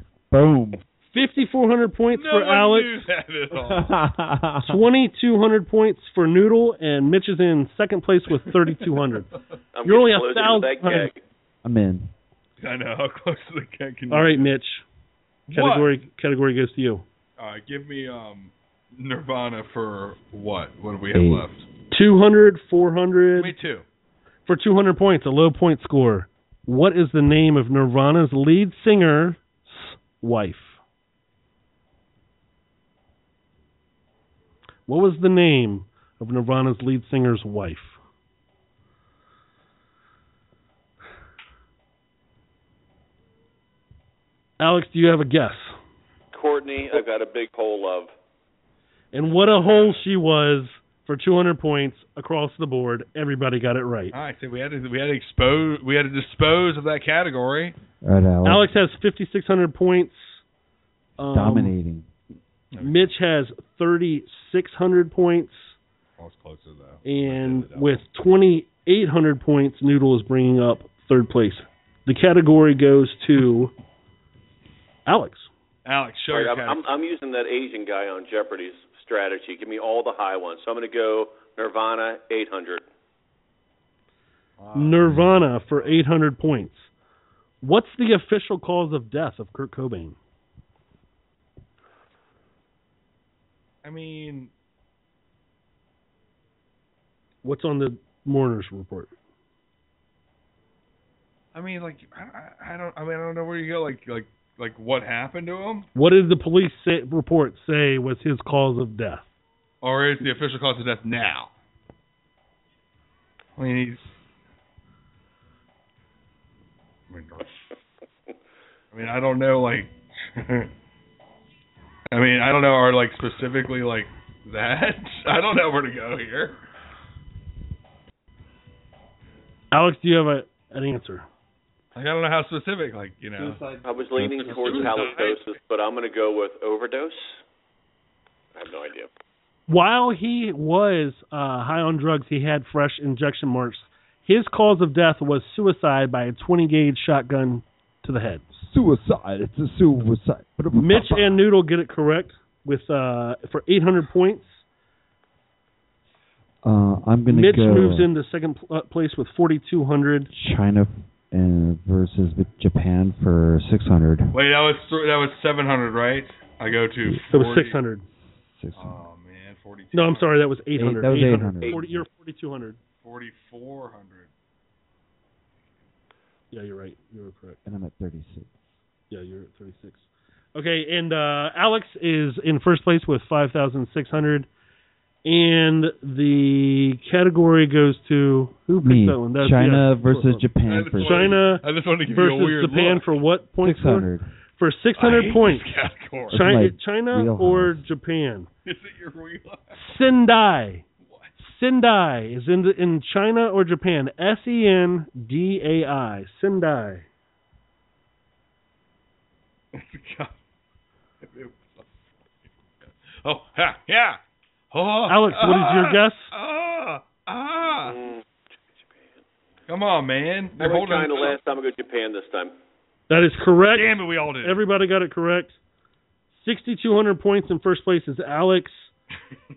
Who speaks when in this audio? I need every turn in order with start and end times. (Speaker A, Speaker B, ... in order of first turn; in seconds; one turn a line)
Speaker A: 0.3-0.8
Speaker B: 1.1-3.0
Speaker C: 2.1-4.1
Speaker A: 4.2-4.8
Speaker B: 4.6-9.3
Speaker D: 9.8-11.2
Speaker B: 9.8-11.1
Speaker A: 11.6-12.1
Speaker C: 12.6-14.5
Speaker B: 14.1-14.8
Speaker C: 15.5-15.9
Speaker B: 15.5-17.0
Speaker C: 17.4-21.6
Speaker A: 21.1-21.5
Speaker B: 21.9-23.5
Speaker C: 23.4-23.9
Speaker B: 24.4-30.8
Speaker B: 34.9-38.0
Speaker B: 44.6-45.8
Speaker D: 46.3-48.1
Speaker B: 49.1-54.1
Speaker C: 49.3-50.0
Speaker C: 54.1-57.8
Speaker A: 58.0-58.7
Speaker B: 58.4-60.4
Speaker B: 61.2-61.8
Speaker A: 61.2-62.1
Speaker C: 62.7-63.1
Speaker B: 62.8-65.8
Speaker C: 66.2-68.0
Speaker B: 67.0-73.7
Speaker B: 75.1-75.5
Speaker C: 75.9-76.9
Speaker D: 76.3-82.8
Speaker C: 84.6-85.2
Speaker B: 84.8-86.9
Speaker C: 85.7-86.0
Speaker B: 87.6-90.2
Speaker C: 93.8-94.5
Speaker B: 97.4-99.1
Speaker C: 101.5-105.9
Speaker B: 106.0-109.3
Speaker C: 109.8-111.5
Speaker C: 113.6-114.1
Speaker C: 117.1-117.5
Speaker C: 118.9-120.7
Speaker C: 122.1-126.6
Speaker B: 129.7-131.3
Speaker C: 131.9-135.3
Speaker D: 133.8-137.4
Speaker D: 138.6-139.1
Speaker B: 139.7-148.6
Speaker A: 148.7-151.4
Speaker B: 150.7-154.6
Speaker A: 156.6-158.1
Speaker B: 157.3-160.3
Speaker A: 160.3-164.4
Speaker C: 164.3-167.8
Speaker B: 167.3-168.1
Speaker A: 168.2-169.0
Speaker C: 168.8-170.3
Speaker B: 169.9-172.8
Speaker A: 170.8-172.1
Speaker C: 173.0-174.3
Speaker B: 176.5-177.6
Speaker A: 177.6-178.7
Speaker B: 179.1-184.5
Speaker B: 185.2-190.3
Speaker A: 188.8-191.4
Speaker C: 190.6-193.1
Speaker B: 191.0-195.7
Speaker A: 193.6-194.3
Speaker C: 195.0-196.6
Speaker A: 196.3-197.8
Speaker B: 196.3-198.5
Speaker C: 198.7-199.8
Speaker B: 199.8-200.8
Speaker C: 201.0-201.3
Speaker B: 201.4-207.1
Speaker C: 209.7-210.4
Speaker C: 211.2-211.9
Speaker C: 213.1-217.9
Speaker B: 215.1-216.3
Speaker D: 217.8-218.2
Speaker C: 219.7-221.4
Speaker D: 220.6-222.5
Speaker B: 223.1-225.6
Speaker C: 223.7-224.6
Speaker B: 226.4-228.9